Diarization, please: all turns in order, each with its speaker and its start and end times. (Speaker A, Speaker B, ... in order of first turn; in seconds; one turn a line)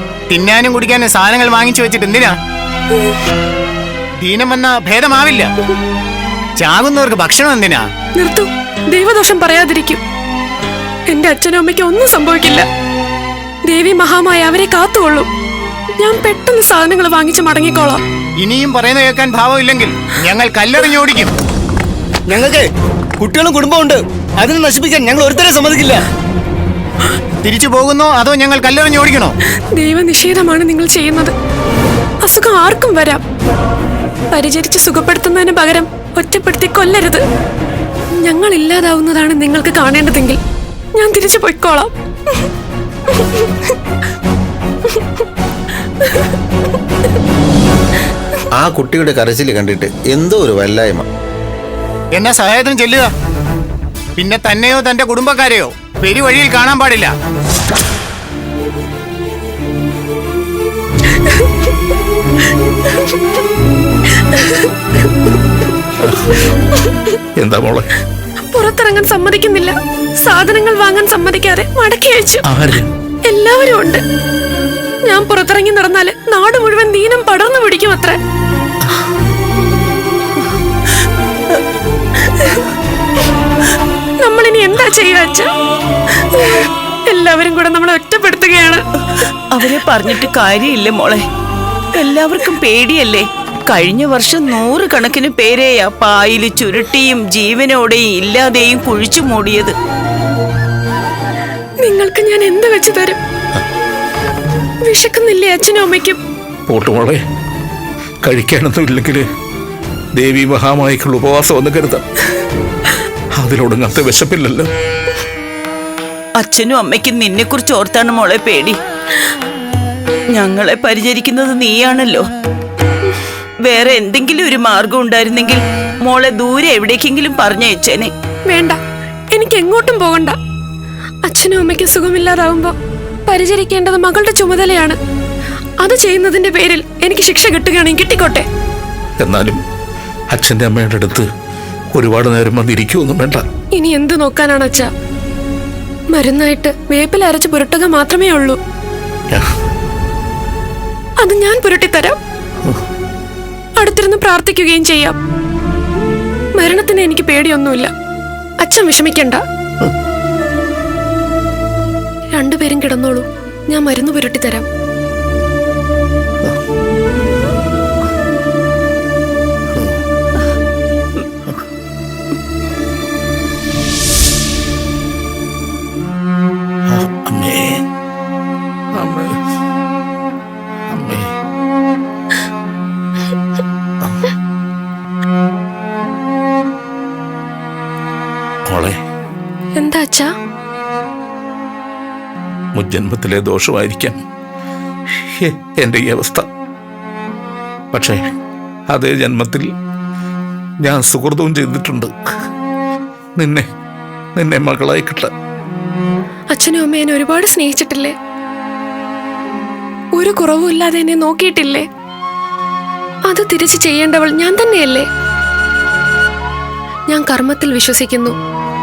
Speaker A: 0.3-2.3
Speaker A: 4.2-5.5
Speaker A: 6.6-7.8
Speaker B: 8.2-10.0
Speaker B: 11.1-12.7
Speaker B: 13.7-15.3
Speaker B: 16.0-18.0
Speaker A: 18.4-21.3
Speaker C: 22.3-22.7
Speaker C: 23.2-26.0
Speaker A: 27.4-29.3
Speaker B: 29.7-31.3
Speaker B: 32.2-33.2
Speaker B: 34.3-37.2
Speaker B: 38.2-40.4
Speaker B: 41.0-42.4
Speaker B: 43.1-43.5
Speaker B: 46.0-46.3
Speaker D: 48.6-51.1
Speaker A: 52.1-53.1
Speaker A: 54.2-57.1
Speaker B: 64.2-64.7
Speaker E: 67.4-67.9
Speaker B: 68.5-72.4
Speaker E: 72.5-72.9
Speaker B: 73.2-74.0
Speaker B: 75.0-78.2
Speaker B: 84.2-85.5
Speaker B: 86.3-88.8
Speaker F: 89.5-91.2
Speaker F: 92.0-99.7
Speaker B: 101.8-103.2
Speaker B: 104.8-106.2
Speaker E: 106.7-107.2
Speaker E: 108.2-109.2
Speaker E: 110.2-112.0
Speaker E: 113.4-114.7
Speaker F: 116.4-118.8
Speaker F: 120.3-122.2
Speaker F: 123.6-128.1
Speaker B: 128.5-128.8
Speaker B: 129.3-130.3
Speaker B: 131.2-132.7
Speaker B: 133.3-135.0
Speaker B: 135.8-138.4
Speaker E: 139.2-139.6
Speaker E: 140.3-141.2
Speaker E: 141.9-143.4
Speaker B: 143.7-144.9
Speaker B: 146.1-148.6
Speaker B: 151.2-152.2
Speaker B: 153.8-155.2
Speaker B: 156.6-157.9
Speaker B: 158.6-159.4
Speaker B: 162.4-164.7
Speaker E: 176.9-177.8
Speaker E: 178.9-179.4
Speaker E: 180.9-181.3
Speaker E: 188.7-189.0
Speaker B: 189.8-190.3
Speaker E: 192.7-194.2
Speaker E: 195.3-196.4
Speaker E: 197.9-198.2
Speaker E: 198.9-199.7
Speaker E: 200.8-202.1
Speaker E: 203.4-203.7
Speaker E: 204.4-205.3
Speaker B: 206.5-208.1
Speaker B: 210.2-211.8
Speaker B: 213.3-215.1
Speaker B: 217.1-218.3